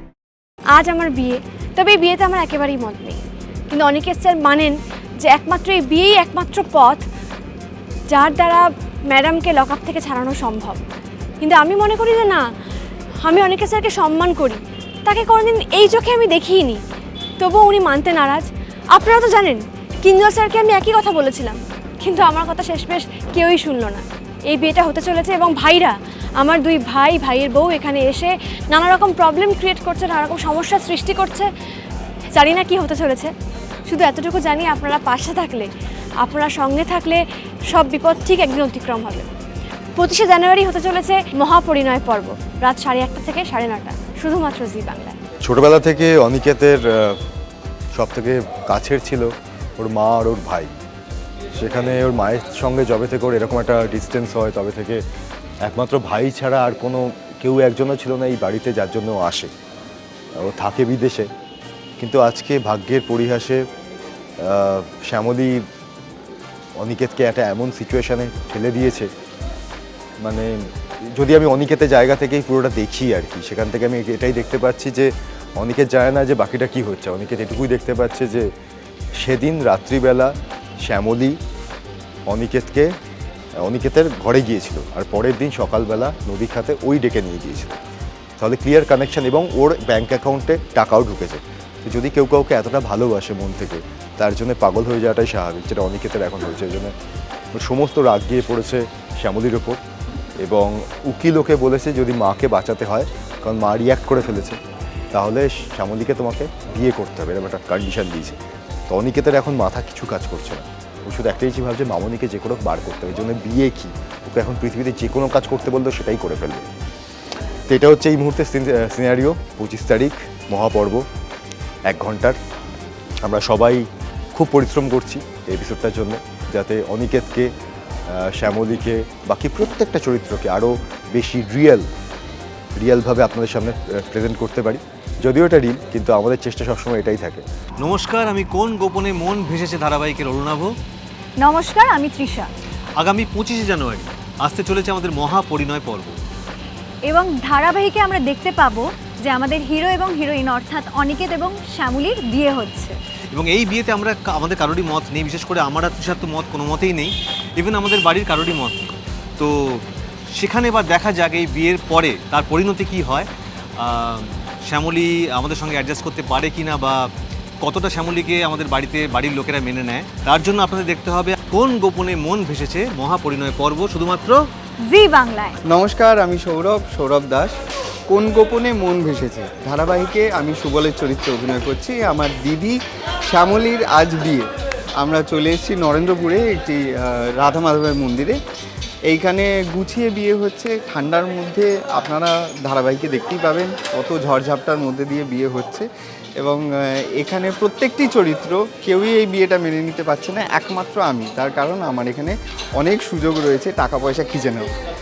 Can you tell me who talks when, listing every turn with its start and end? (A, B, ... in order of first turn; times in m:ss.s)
0:00.7-0:03.2 A
0:03.7-0:07.0 A
0:08.1-0:10.8 A
0:11.4-0:12.4 A
0:13.2-0:16.8 A
0:17.4-0:31.5 A
0:32.4-0:33.3 A
0:33.9-0:35.7 A
0:36.2-0:39.3 A
0:40.0-0:45.2 A
0:45.4-0:47.2 B
0:47.9-0:50.7 B
0:51.5-0:55.0 B
0:55.6-0:59.5 B
1:00.4-1:01.3 B
1:02.0-1:03.6 B
1:04.4-1:05.6 B
1:06.8-1:09.1 B
1:10.2-1:10.5 B
1:11.1-1:18.5 B
1:19.2-1:21.4 B
1:22.3-1:22.9 B
1:23.6-1:27.8 B
1:28.4-1:36.9 B
1:37.5-1:39.8 B
1:40.4-1:44.6 B
1:45.1-1:48.4 B
1:48.9-1:56.7 B
1:57.7-2:01.0 B
2:01.9-2:02.4 B
2:03.2-2:07.5 B
2:08.1-2:11.9 B
2:12.8-2:17.4 B
2:17.8-2:20.8 C
2:21.4-2:22.5 D
2:23.0-2:26.2 C
2:27.0-2:33.0 D
2:33.3-2:54.5 C
2:54.8-2:55.6 D
2:55.6-2:57.6 E
2:58.1-3:04.5 E
3:05.0-3:08.4 E
3:09.1-3:15.9 E
3:16.4-3:24.7 E